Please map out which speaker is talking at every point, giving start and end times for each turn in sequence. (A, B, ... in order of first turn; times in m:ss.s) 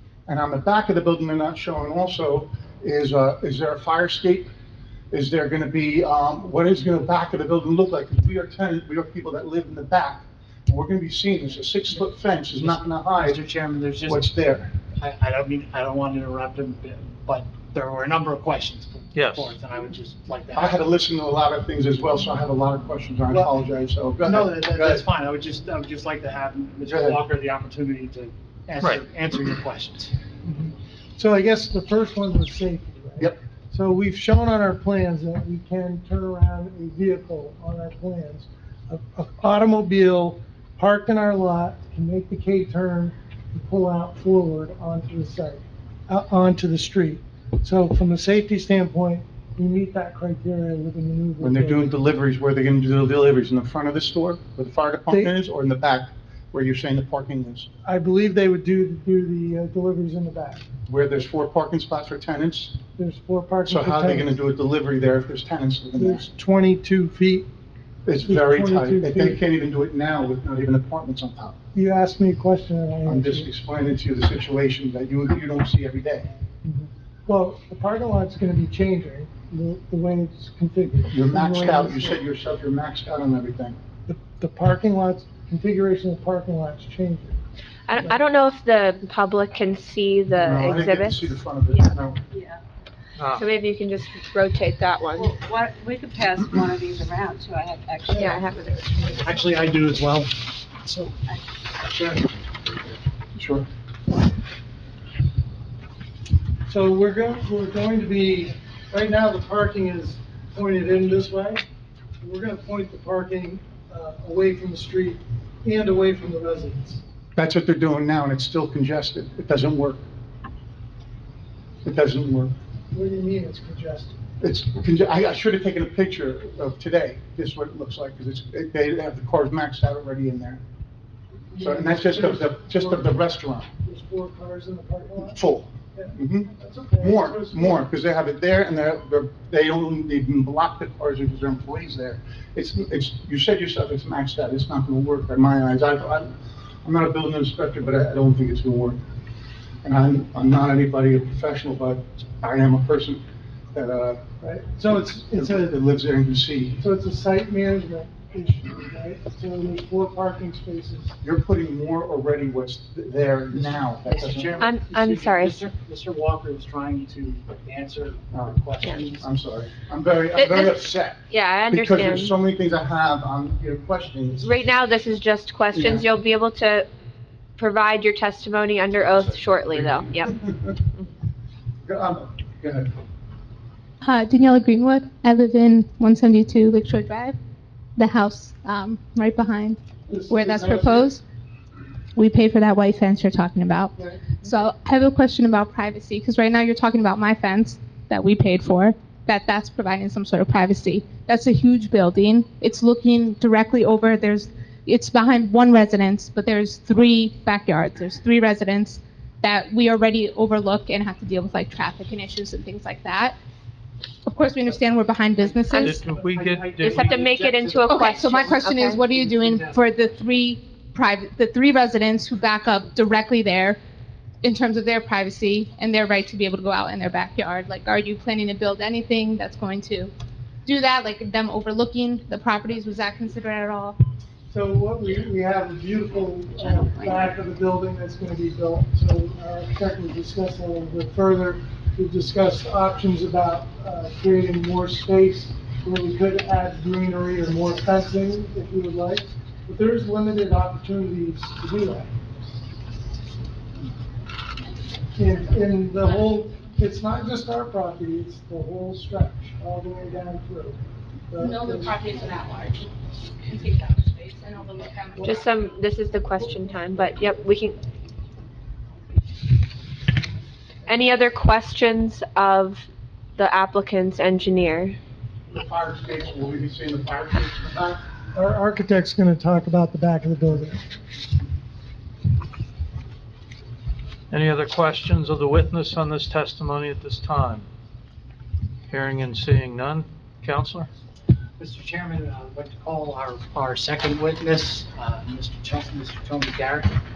0:00.3-0:04.5 A
0:05.1-0:13.4 A
0:12.5-0:14.3 B
0:14.0-0:14.7 A
0:14.8-0:20.8 B
0:19.1-0:19.5 C
0:20.5-0:25.0 A
0:24.2-0:30.1 B
0:26.8-0:27.2 A
0:30.4-0:51.9 D
0:51.4-0:57.7 A
0:57.8-1:00.6 D
1:00.9-1:02.8 A
1:03.0-1:04.4 D
1:03.6-1:06.3 A
1:06.0-1:07.5 D
1:08.0-1:11.6 A
1:08.2-1:09.4 D
1:11.7-1:13.5 D
1:13.0-1:16.3 A
1:16.6-1:22.2 D
1:21.1-1:23.8 A
1:24.1-1:27.4 D
1:27.9-1:31.9 E
1:30.3-1:32.2 A
1:33.2-1:33.4 C
1:33.3-1:35.4 E
1:35.2-1:39.3 F
1:38.1-1:39.1 E
1:39.2-1:41.3 B
1:41.8-1:42.4 B
1:43.3-1:43.7 A
1:46.7-1:51.6 D
1:52.2-1:57.0 D
1:57.4-2:00.0 A
2:01.8-2:02.5 A
2:02.9-2:04.2 D
2:04.4-2:10.6 A
2:11.5-2:13.1 D
2:11.6-2:13.7 A
2:13.8-2:15.4 D
2:15.2-2:26.3 A
2:15.9-2:17.8 D
2:26.8-2:29.0 A
2:29.8-2:33.2 A
2:33.7-2:34.2 A
2:34.4-2:35.7 D
2:35.3-2:36.8 A
2:36.8-2:41.1 D
2:41.2-2:44.7 A
2:43.5-2:49.3 B
2:44.6-2:45.6 E
2:48.3-2:54.5 A
2:50.3-2:52.3 E
2:54.4-2:56.9 E
2:55.7-2:56.0 A
2:57.6-3:00.3 E
2:59.6-3:00.8 A
3:01.8-3:02.9 A
3:04.0-3:07.4 G
3:08.0-3:09.8 G
3:10.1-3:11.1 D
3:10.3-3:11.2 G
3:12.1-3:33.4 G
3:14.0-3:14.2 D
3:34.2-3:36.1 G
3:35.4-3:39.8 B
3:35.8-3:37.2 C
3:36.8-3:39.0 E
3:37.9-3:43.8 G
3:44.4-3:50.1 G
3:50.6-3:54.0 G
3:54.5-4:12.1 D
4:15.1-4:22.0 D
4:21.4-4:25.4 G
4:25.2-4:27.8 E
4:30.9-4:35.0 E
4:35.5-4:38.0 A
4:38.3-4:40.8 D
4:44.3-4:47.6 C
4:48.9-4:50.9 C
4:51.6-4:57.0 B